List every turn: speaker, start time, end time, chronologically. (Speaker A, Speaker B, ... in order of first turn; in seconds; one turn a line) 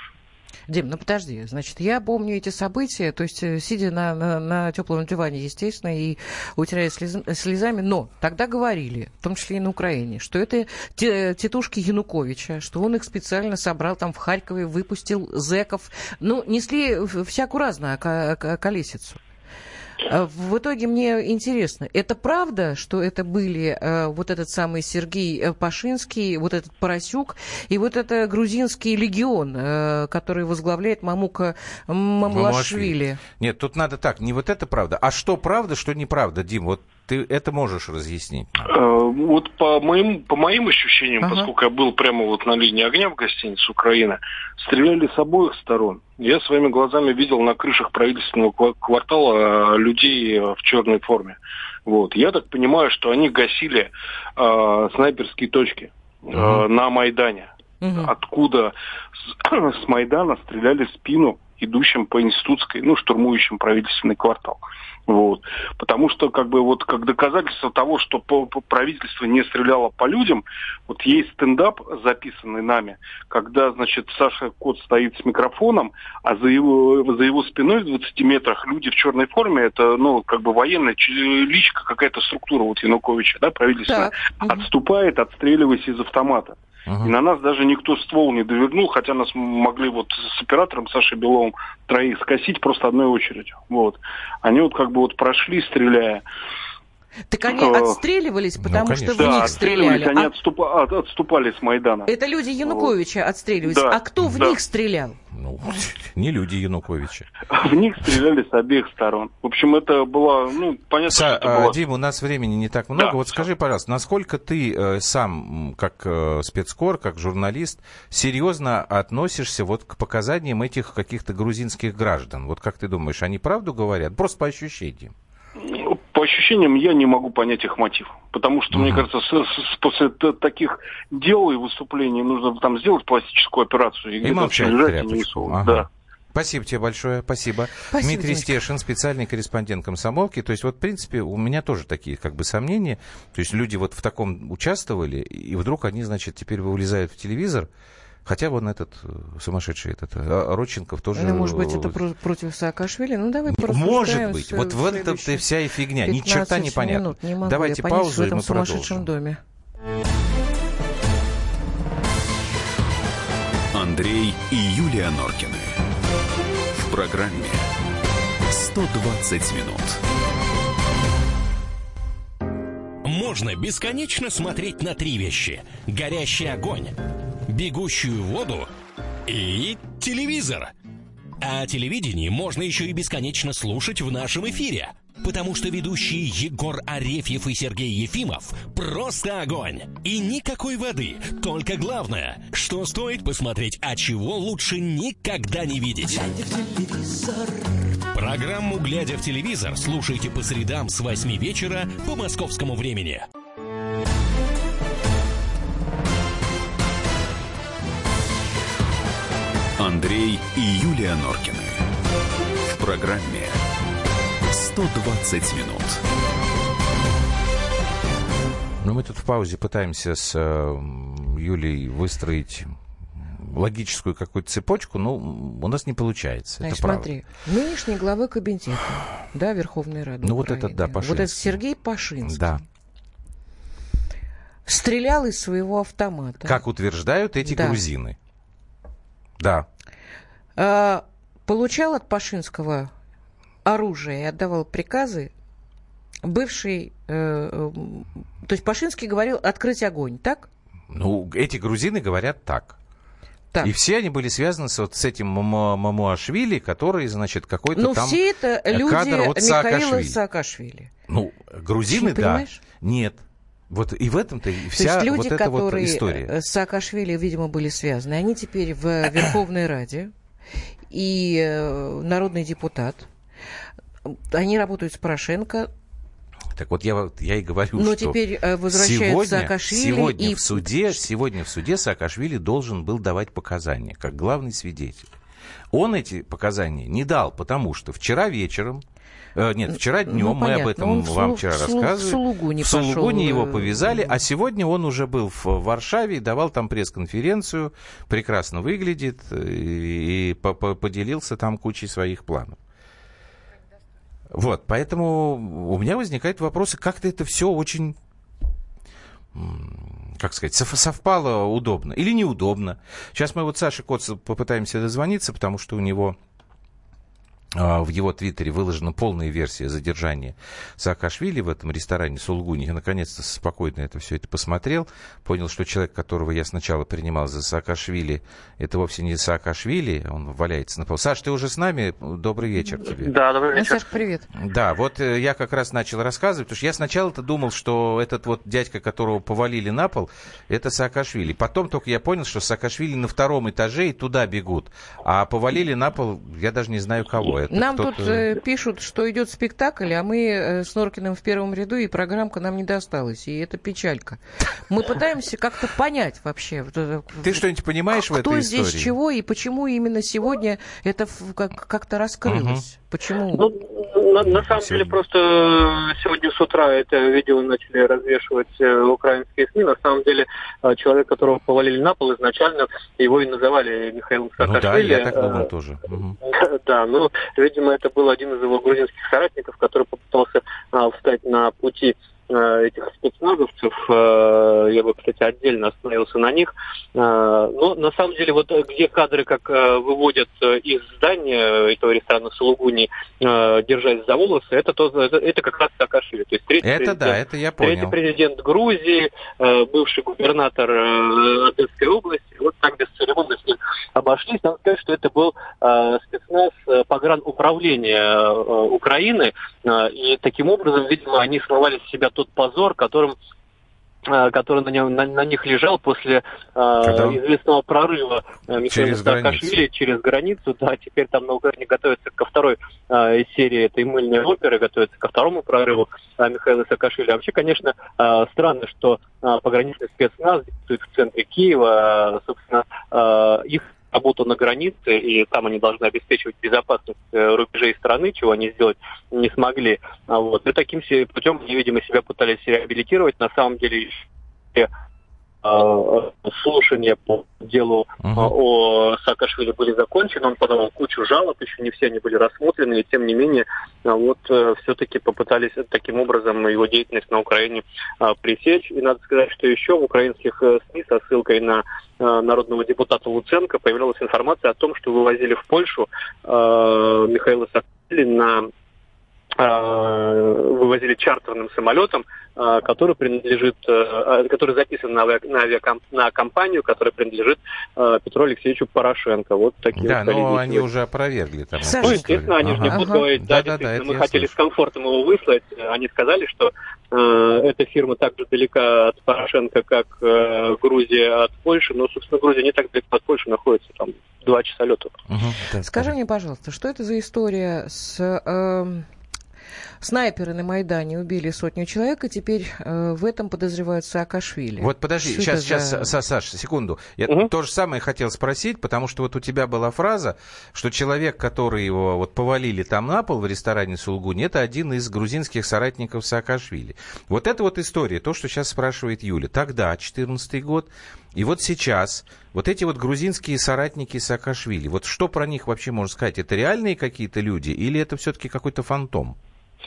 Speaker A: 0.7-19.2
Speaker A: 20.1-33.2
Speaker B: 32.2-38.7
Speaker C: 38.7-58.8
Speaker A: 41.2-41.5
Speaker B: 56.4-56.6
Speaker A: 57.8-58.1
Speaker C: 59.4-96.2
Speaker A: 83.8-84.7
Speaker B: 86.9-87.2
Speaker A: 97.3-100.3
Speaker C: 97.5-98.0
Speaker B: 98.6-99.6
Speaker C: 99.2-102.1
Speaker A: 102.1-105.2
Speaker C: 102.7-102.9
Speaker C: 103.6-104.5
Speaker B: 105.3-107.3
Speaker C: 107.5-111.8
Speaker B: 111.1-125.1
Speaker C: 112.9-113.2
Speaker C: 125.6-135.9
Speaker B: 128.7-129.1
Speaker B: 134.2-147.7
Speaker A: 137.9-138.6
Speaker B: 148.2-152.0
Speaker A: 151.2-155.5
Speaker B: 153.5-159.1
Speaker A: 156.0-159.4
Speaker D: 163.7-165.8
Speaker D: 166.8-167.7
Speaker D: 168.6-170.0
Speaker E: 168.9-169.8
Speaker E: 173.0-176.9
Speaker E: 177.5-178.7
Speaker E: 179.3-180.7
Speaker E: 181.4-203.3
Speaker D: 209.8-211.9
Speaker D: 212.6-213.6
Speaker D: 214.5-216.0
Speaker B: 218.8-227.1
Speaker A: 226.6-232.6
Speaker B: 230.2-231.6
Speaker B: 232.2-232.6
Speaker A: 234.7-236.6
Speaker B: 236.4-238.2
Speaker A: 237.4-237.8
Speaker B: 239.4-239.7
Speaker A: 240.6-242.9
Speaker A: 243.7-245.3
Speaker A: 246.2-250.5
Speaker B: 250.9-252.8
Speaker B: 253.6-260.2
Speaker A: 257.7-260.9
Speaker B: 261.1-266.3
Speaker A: 261.9-262.6
Speaker A: 264.7-270.1
Speaker A: 270.9-273.1
Speaker A: 274.1-275.7
Speaker B: 276.5-278.2
Speaker A: 277.7-281.0
Speaker B: 278.7-285.1
Speaker B: 285.7-288.8
Speaker B: 289.4-302.6
Speaker A: 289.7-294.1
Speaker B: 304.3-308.0
Speaker B: 309.3-316.2
Speaker B: 317.6-333.1
Speaker F: 332.9-333.9
Speaker A: 333.5-334.3
Speaker B: 334.4-348.3
Speaker A: 347.5-363.5
Speaker B: 357.2-358.9
Speaker B: 362.3-362.6
Speaker F: 363.3-375.5
Speaker B: 364.2-365.0
Speaker B: 374.4-376.2
Speaker F: 376.2-413.2
Speaker B: 396.6-397.9
Speaker F: 414.1-444.0
Speaker B: 416.8-417.2
Speaker B: 418.7-419.6
Speaker F: 445.4-468.5
Speaker B: 448.0-448.3
Speaker F: 469.4-480.7
Speaker B: 479.7-484.3
Speaker A: 481.6-482.1
Speaker F: 481.8-494.9
Speaker A: 482.7-483.0
Speaker B: 495.1-495.9
Speaker A: 495.6-498.9
Speaker A: 499.8-505.9
Speaker B: 504.6-529.2